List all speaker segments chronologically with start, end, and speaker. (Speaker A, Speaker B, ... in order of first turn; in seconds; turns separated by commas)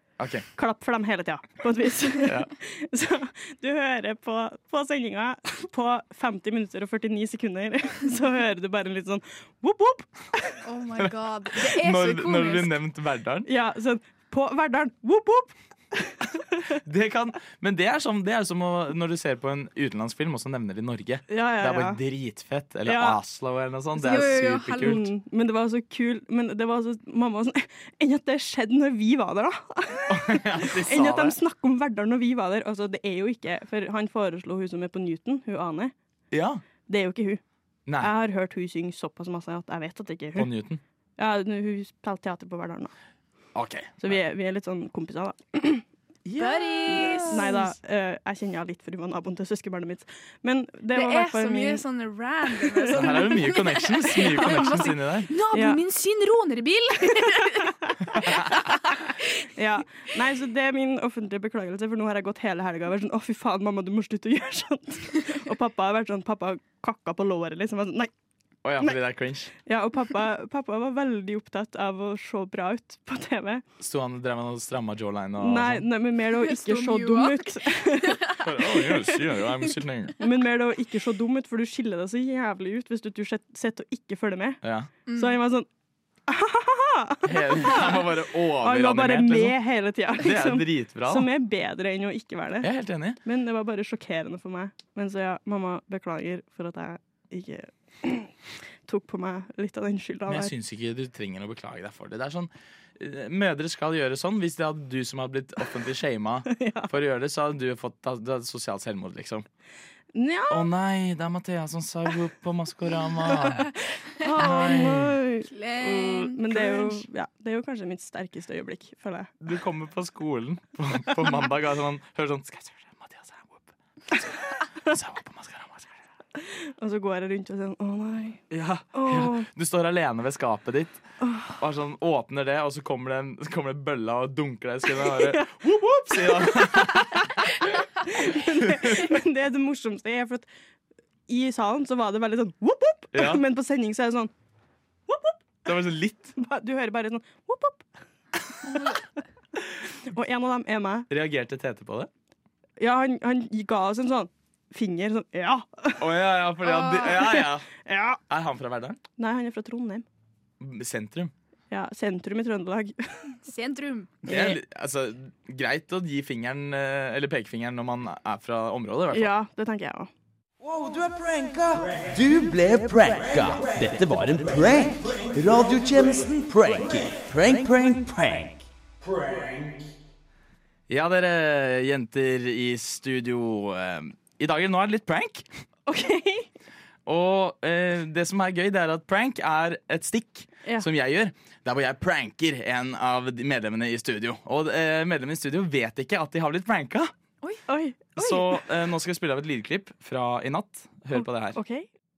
Speaker A: 0.2-0.4, Speaker B: 0.5-10.6, Speaker A: 2.2-2.5, Speaker C: 10.6-12.8, Speaker A: 11.0-13.5, Speaker B: 13.4-16.8, Speaker A: 16.7-25.1, Speaker B: 21.3-22.0, Speaker B: 22.8-23.2, Speaker C: 24.0-25.0, Speaker B: 24.0-35.9, Speaker A: 30.1-31.4, Speaker A: 36.3-36.6, Speaker B: 36.9-37.4, Speaker A: 37.9-38.1, Speaker B: 38.0-40.5, Speaker A: 40.4-40.8, Speaker B: 41.2-42.9, Speaker A: 43.5-44.1, Speaker B: 44.0-45.8, Speaker A: 46.2-47.5, Speaker C: 46.4-47.7, Speaker B: 46.9-51.8, Speaker C: 50.9-59.3, Speaker B: 52.6-53.0, Speaker A: 52.9-55.3, Speaker B: 55.5-55.8, Speaker B: 57.4-58.8, Speaker A: 58.2-58.5, Speaker B: 59.5-68.1, Speaker A: 68.6-69.5, Speaker B: 69.6-73.6, Speaker A: 73.8-75.9, Speaker B: 75.4-78.4, Speaker C: 76.3-78.5, Speaker A: 78.4-80.1, Speaker B: 80.2-84.6, Speaker A: 84.6-84.9, Speaker C: 85.0-85.4, Speaker B: 85.1-85.7, Speaker B: 86.3-92.7, Speaker A: 87.2-89.6, Speaker A: 90.1-91.3, Speaker A: 92.6-93.2, Speaker B: 93.2-98.3, Speaker B: 98.8-100.5, Speaker A: 100.3-109.5, Speaker B: 106.5-106.9, Speaker B: 110.1-110.7, Speaker A: 110.5-113.7, Speaker B: 114.2-119.3, Speaker A: 114.3-115.1, Speaker C: 115.5-117.0, Speaker A: 119.4-125.9, Speaker B: 126.4-129.5, Speaker A: 128.5-137.5, Speaker B: 131.2-131.5, Speaker B: 135.0-140.5, Speaker A: 138.4-139.1, Speaker B: 141.3-144.3, Speaker A: 143.1-143.4, Speaker A: 145.6-146.3, Speaker B: 146.4-147.9, Speaker B: 150.0-151.1, Speaker A: 151.1-152.1, Speaker B: 152.8-156.1, Speaker A: 156.0-157.7, Speaker C: 156.6-157.3, Speaker B: 157.7-158.2, Speaker A: 158.3-159.0, Speaker B: 159.2-160.0, Speaker A: 160.6-161.3, Speaker B: 161.7-163.4, Speaker C: 163.4-164.2, Speaker A: 164.2-169.3, Speaker B: 164.2-164.6, Speaker B: 169.1-170.1, Speaker D: 172.1-174.8, Speaker D: 176.2-178.1, Speaker A: 180.9-185.4, Speaker B: 185.9-186.5, Speaker A: 187.1-197.1, Speaker B: 197.7-198.6, Speaker A: 198.2-201.6, Speaker B: 201.1-201.9